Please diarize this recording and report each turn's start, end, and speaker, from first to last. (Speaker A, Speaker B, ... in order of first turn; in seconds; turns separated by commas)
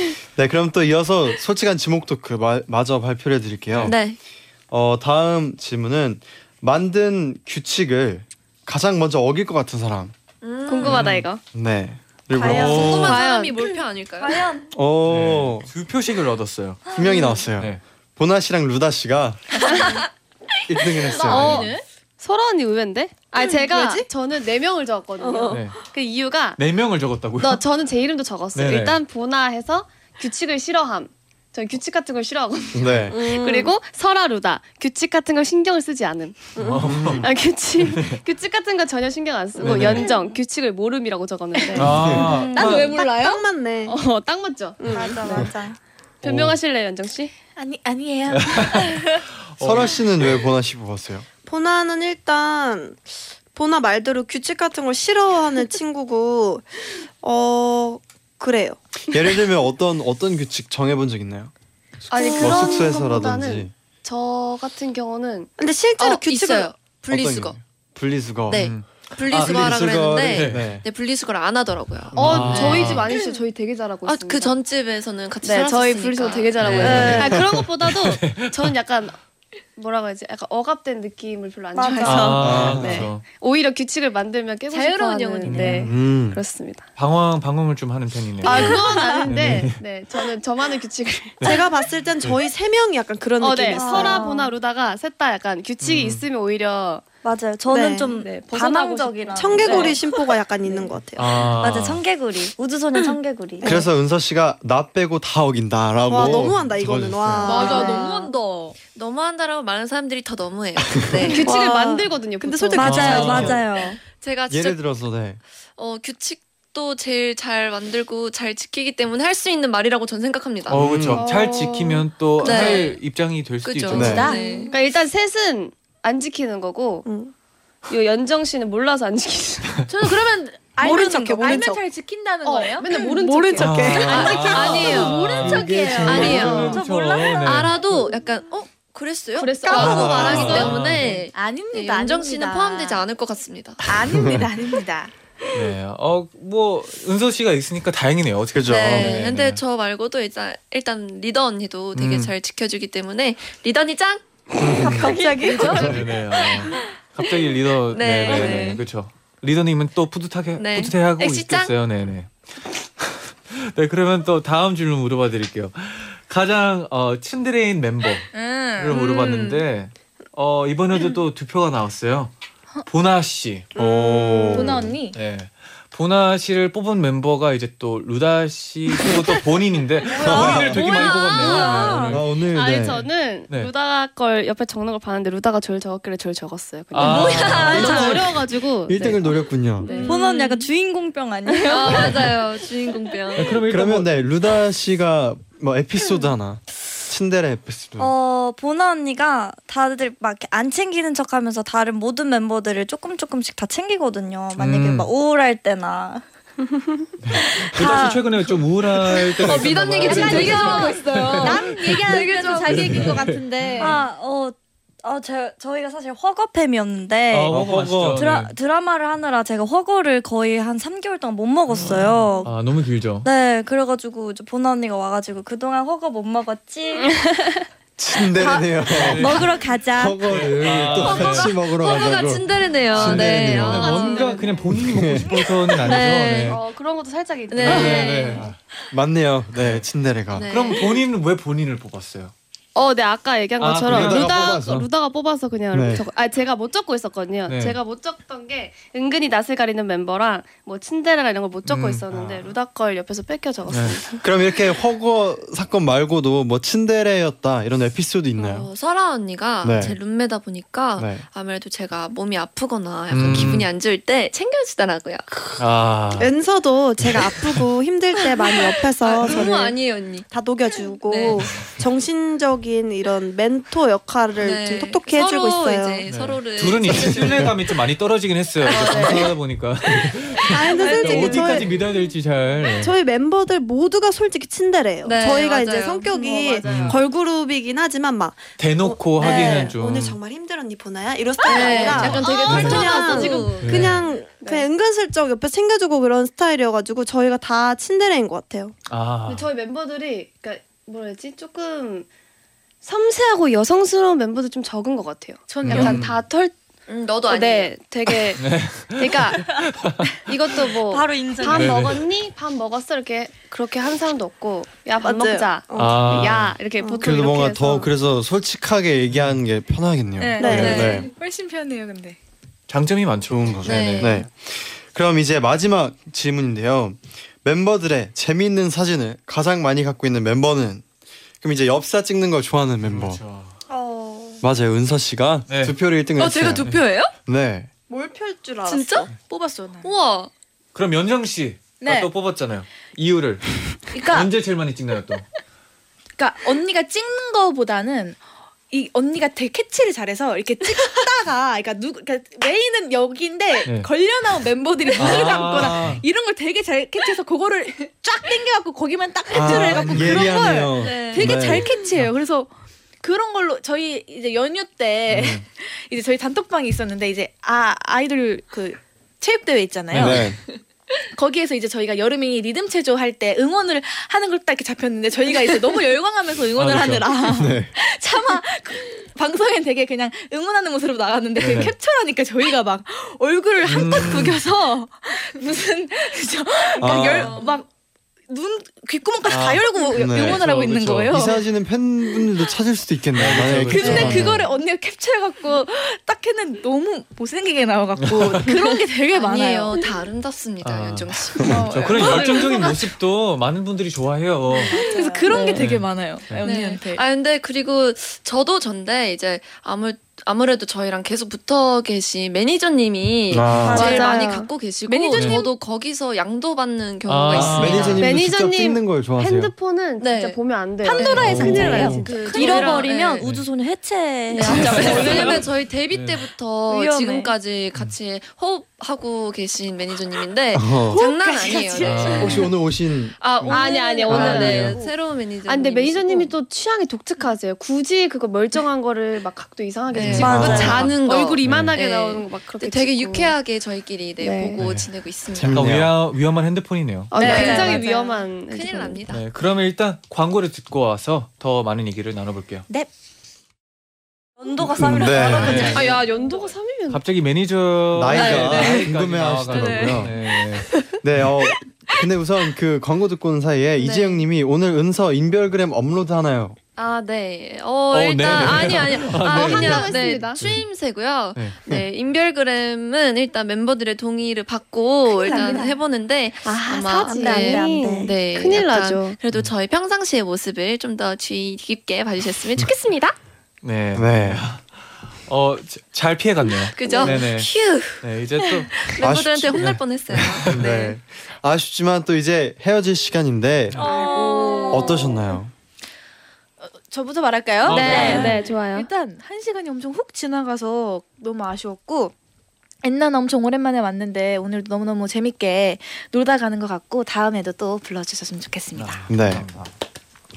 Speaker A: 0.4-4.0, Speaker B: 3.9-4.2, Speaker A: 4.7-10.1, Speaker B: 10.4-11.2, Speaker C: 10.7-11.4, Speaker D: 10.8-11.3, Speaker A: 11.5-13.1, Speaker E: 12.3-13.1, Speaker D: 12.4-13.2, Speaker C: 12.5-13.8, Speaker B: 12.7-14.5, Speaker E: 14.2-14.6, Speaker A: 14.7-15.7, Speaker D: 15.1-16.8, Speaker A: 16.9-19.5, Speaker D: 17.6-17.8, Speaker C: 19.6-20.1, Speaker A: 20.7-21.7, Speaker C: 21.0-26.6, Speaker F: 21.1-21.8, Speaker D: 25.5-25.8, Speaker D: 26.6-27.6, Speaker C: 27.4-42.1, Speaker D: 28.5-29.0, Speaker A: 32.7-33.2, Speaker G: 33.1-33.7, Speaker D: 36.6-38.2, Speaker A: 36.8-37.3, Speaker D: 39.6-40.1, Speaker F: 41.6-43.4, Speaker D: 41.8-42.9, Speaker A: 41.9-42.3, Speaker E: 42.4-42.9, Speaker G: 42.6-44.0, Speaker C: 43.9-45.5, Speaker E: 44.9-45.8, Speaker C: 46.2-47.3, Speaker D: 46.2-46.6, Speaker F: 47.6-49.2, Speaker D: 48.3-50.4, Speaker A: 49.6-51.3, Speaker G: 51.5-56.7, Speaker G: 57.2-58.8, Speaker A: 59.1-61.5, Speaker C: 62.1-65.5, Speaker A: 62.1-63.7, Speaker G: 62.2-62.5, Speaker G: 65.6-66.7, Speaker B: 66.0-67.6, Speaker A: 67.1-68.7, Speaker B: 68.5-73.4, Speaker D: 68.5-70.8, Speaker A: 69.3-70.8, Speaker C: 72.1-74.6, Speaker D: 72.2-73.1, Speaker A: 72.2-72.6, Speaker B: 74.0-77.4, Speaker C: 75.4-79.2, Speaker D: 76.6-78.8, Speaker A: 77.0-77.3, Speaker C: 79.8-86.9, Speaker E: 81.7-82.4, Speaker D: 82.0-83.2, Speaker A: 82.4-83.1, Speaker B: 84.7-85.9, Speaker D: 85.4-85.9, Speaker A: 85.9-86.4, Speaker D: 87.0-89.8, Speaker C: 88.4-91.6, Speaker E: 88.5-89.2, Speaker D: 91.4-91.7, Speaker G: 91.4-94.3, Speaker C: 93.4-97.0, Speaker E: 93.7-94.5, Speaker D: 95.8-96.2, Speaker E: 97.2-100.0, Speaker G: 97.7-98.3, Speaker C: 98.3-100.0, Speaker G: 99.4-101.4, Speaker D: 101.2-102.0, Speaker E: 101.4-103.8, Speaker A: 103.6-107.7, Speaker G: 106.1-108.1, Speaker F: 107.4-108.8, Speaker B: 107.5-107.9, Speaker C: 107.7-108.0, Speaker B: 108.9-111.6, Speaker C: 111.2-113.6, Speaker G: 111.4-113.6, Speaker E: 112.8-114.0, Speaker D: 112.8-113.6, Speaker B: 114.1-114.8, Speaker A: 114.5-115.4, Speaker B: 115.8-120.8, Speaker A: 120.7-121.2, Speaker D: 120.7-124.3, Speaker C: 121.2-122.9, Speaker B: 122.4-123.0, Speaker B: 123.6-124.8, Speaker A: 123.9-124.3, Speaker F: 123.9-124.7, Speaker C: 124.3-127.1, Speaker G: 127.0-127.3, Speaker C: 127.9-129.8, Speaker F: 129.9-136.8, Speaker E: 130.8-131.8, Speaker G: 130.8-131.8, Speaker C: 132.4-135.5, Speaker G: 132.9-135.0, Speaker D: 133.6-137.7, Speaker B: 134.6-134.9, Speaker A: 135.6-136.6, Speaker B: 136.0-136.8, Speaker E: 136.1-137.6, Speaker G: 136.4-136.8, Speaker B: 137.3-143.9, Speaker C: 139.4-140.8, Speaker A: 139.7-140.8, Speaker D: 140.1-141.2, Speaker F: 141.1-143.1, Speaker F: 143.8-145.1, Speaker A: 144.1-144.5, Speaker D: 145.5-149.6, Speaker A: 148.5-149.2, Speaker B: 148.7-154.3, Speaker D: 151.9-152.3, Speaker A: 154.6-155.1, Speaker E: 154.6-156.9, Speaker G: 155.1-155.9, Speaker F: 155.4-156.0, Speaker D: 155.8-162.3, Speaker B: 157.9-158.8, Speaker B: 160.6-161.7, Speaker D: 163.1-172.3, Speaker F: 168.3-169.0, Speaker B: 168.9-169.6, Speaker D: 172.9-173.7, Speaker A: 173.8-174.9, Speaker C: 173.8-174.5, Speaker F: 174.5-175.2, Speaker D: 175.1-182.3, Speaker E: 180.2-182.2, Speaker A: 180.2-180.8, Speaker B: 180.7-182.0, Speaker C: 181.1-181.7, Speaker A: 182.0-183.1, Speaker C: 182.4-190.3, Speaker D: 186.9-188.2, Speaker B: 187.0-188.2, Speaker E: 187.1-188.4, Speaker A: 188.9-189.9, Speaker B: 189.8-190.6, Speaker E: 189.9-193.2, Speaker B: 191.6-193.6, Speaker D: 192.0-192.2, Speaker D: 193.3-194.2, Speaker A: 193.7-198.1, Speaker C: 196.0-196.3, Speaker E: 198.0-206.2, Speaker D: 204.6-205.1, Speaker D: 207.2-213.9, Speaker E: 207.4-208.3, Speaker B: 209.4-213.2, Speaker C: 209.5-211.3, Speaker F: 210.0-214.0, Speaker E: 210.3-210.7, Speaker E: 211.2-213.2, Speaker E: 213.7-217.6, Speaker D: 217.3-218.5, Speaker A: 217.5-218.3, Speaker E: 218.2-222.6, Speaker D: 221.7-223.3, Speaker E: 223.2-227.4, Speaker A: 228.0-233.9, Speaker E: 228.2-230.3, Speaker D: 228.8-229.5, Speaker D: 230.3-231.6, Speaker B: 230.9-234.5, Speaker D: 232.9-236.6, Speaker C: 233.0-234.6, Speaker A: 234.6-235.6, Speaker B: 235.8-236.6, Speaker C: 235.9-238.5, Speaker B: 237.5-238.4, Speaker D: 237.6-238.6, Speaker A: 238.4-240.5, Speaker D: 239.5-239.8, Speaker B: 240.3-241.0, Speaker D: 240.5-242.3, Speaker C: 242.8-254.2, Speaker D: 243.6-244.7, Speaker A: 243.8-244.9, Speaker A: 245.7-246.1, Speaker D: 247.5-247.8, Speaker D: 251.7-252.1, Speaker A: 252.1-252.5, Speaker A: 253.7-258.7, Speaker D: 253.7-254.0, Speaker B: 258.4-265.5, Speaker A: 259.6-260.0, Speaker A: 261.0-261.2, Speaker D: 263.1-263.7, Speaker D: 265.6-266.3, Speaker G: 266.1-276.1, Speaker B: 268.4-270.3, Speaker B: 271.0-271.6, Speaker D: 271.3-271.7, Speaker B: 274.4-277.5, Speaker D: 276.1-282.9, Speaker A: 276.9-277.5, Speaker B: 278.6-279.3, Speaker C: 278.7-279.2, Speaker B: 280.4-281.7, Speaker G: 280.4-281.9, Speaker G: 282.8-298.7, Speaker B: 285.0-286.1, Speaker C: 286.1-287.0, Speaker D: 286.6-287.0, Speaker D: 288.6-290.2, Speaker B: 291.4-294.0, Speaker C: 291.5-293.3, Speaker D: 291.9-294.0, Speaker C: 294.3-294.7, Speaker D: 298.9-299.5, Speaker C: 299.2-302.1, Speaker C: 302.8-306.6, Speaker F: 305.5-306.1, Speaker D: 305.7-306.2, Speaker B: 306.9-308.1, Speaker C: 307.3-308.4, Speaker D: 308.4-310.3, Speaker C: 309.0-309.6, Speaker C: 310.2-317.9, Speaker E: 310.9-311.8, Speaker D: 311.4-312.0, Speaker G: 315.0-316.2, Speaker D: 315.7-316.6, Speaker G: 316.8-317.1, Speaker A: 317.0-321.1, Speaker D: 319.1-319.4, Speaker F: 320.2-322.2, Speaker G: 320.4-321.0, Speaker D: 320.4-320.9, Speaker B: 320.5-321.1, Speaker D: 322.7-324.2, Speaker A: 323.3-330.9, Speaker B: 323.6-324.2, Speaker A: 331.4-333.2, Speaker D: 332.8-333.6, Speaker E: 333.7-334.4, Speaker A: 334.4-336.7, Speaker D: 335.5-335.8, Speaker B: 336.2-337.1, Speaker A: 337.3-337.7, Speaker G: 337.9-339.1, Speaker B: 338.6-339.1, Speaker F: 339.2-339.9, Speaker B: 339.8-340.3, Speaker D: 340.8-345.3, Speaker F: 341.8-342.1, Speaker F: 343.9-344.3, Speaker F: 346.2-348.2, Speaker F: 348.7-362.5, Speaker D: 355.0-356.0, Speaker A: 359.3-361.6, Speaker D: 359.6-360.3, Speaker B: 360.8-361.6, Speaker F: 363.0-370.3, Speaker D: 365.1-365.4, Speaker A: 369.9-370.4, Speaker D: 369.9-370.2, Speaker F: 371.1-387.7, Speaker D: 376.6-377.1, Speaker A: 377.2-377.7, Speaker D: 381.4-381.7, Speaker D: 383.6-384.4, Speaker A: 386.8-387.4, Speaker B: 386.8-387.6, Speaker F: 388.3-391.4, Speaker D: 389.2-390.8, Speaker A: 389.9-394.4, Speaker D: 393.1-394.4, Speaker F: 393.7-399.8, Speaker D: 398.0-398.5, Speaker B: 399.1-402.5, Speaker D: 400.6-404.8, Speaker F: 401.5-402.7, Speaker E: 404.6-405.4, Speaker F: 404.7-407.0, Speaker C: 405.3-405.7, Speaker D: 405.6-406.4, Speaker B: 406.4-418.1, Speaker A: 413.3-413.8, Speaker D: 413.4-413.8, Speaker E: 413.6-414.2, Speaker C: 413.7-415.5, Speaker D: 415.1-415.4, Speaker D: 417.1-418.0, Speaker A: 417.3-419.5, Speaker C: 417.6-423.2, Speaker B: 420.0-420.4, Speaker F: 420.8-422.8, Speaker B: 421.0-423.2, Speaker D: 421.2-421.5, Speaker E: 421.3-425.4, Speaker D: 423.2-423.5, Speaker B: 424.3-432.5, Speaker D: 424.4-425.4, Speaker C: 424.6-425.4, Speaker D: 425.9-426.3, Speaker E: 426.7-427.3, Speaker A: 430.5-431.0, Speaker F: 431.0-431.8, Speaker D: 431.8-432.5, Speaker A: 432.2-433.6, Speaker C: 433.2-434.9, Speaker B: 433.3-436.4, Speaker D: 434.1-434.8, Speaker C: 435.4-443.4, Speaker B: 439.9-445.7, Speaker E: 440.1-440.9, Speaker A: 440.2-440.9, Speaker D: 441.4-441.7, Speaker C: 444.2-444.6, Speaker D: 444.6-444.9, Speaker A: 445.3-445.9, Speaker D: 445.5-447.1, Speaker C: 447.1-449.1, Speaker B: 447.2-447.9, Speaker E: 447.2-448.2, Speaker B: 448.5-449.2, Speaker D: 449.1-452.7, Speaker E: 454.4-456.0, Speaker A: 454.8-455.7, Speaker B: 455.2-455.9, Speaker C: 455.2-457.0, Speaker D: 455.4-455.9, Speaker D: 456.9-460.7, Speaker A: 457.9-460.1, Speaker B: 458.1-458.8, Speaker B: 459.5-460.1, Speaker B: 460.7-460.9, Speaker A: 461.0-466.6, Speaker B: 463.8-464.2, Speaker B: 466.8-483.2, Speaker D: 467.9-470.7, Speaker C: 468.2-470.4, Speaker F: 475.1-475.8, Speaker C: 476.4-479.2, Speaker G: 477.0-477.9, Speaker E: 477.1-478.1, Speaker D: 483.6-484.7, Speaker A: 483.9-484.5, Speaker D: 485.2-487.5, Speaker B: 486.6-488.0, Speaker C: 486.8-487.2, Speaker D: 488.0-488.9, Speaker B: 488.8-491.0, Speaker A: 489.0-493.8, Speaker F: 493.8-494.8, Speaker B: 493.8-495.0, Speaker A: 494.7-495.5, Speaker F: 496.6-502.1, Speaker D: 497.7-498.3, Speaker B: 497.7-498.5, Speaker C: 497.7-498.9, Speaker E: 498.0-498.4, Speaker F: 502.8-509.1, Speaker D: 508.7-509.7, Speaker A: 509.1-509.5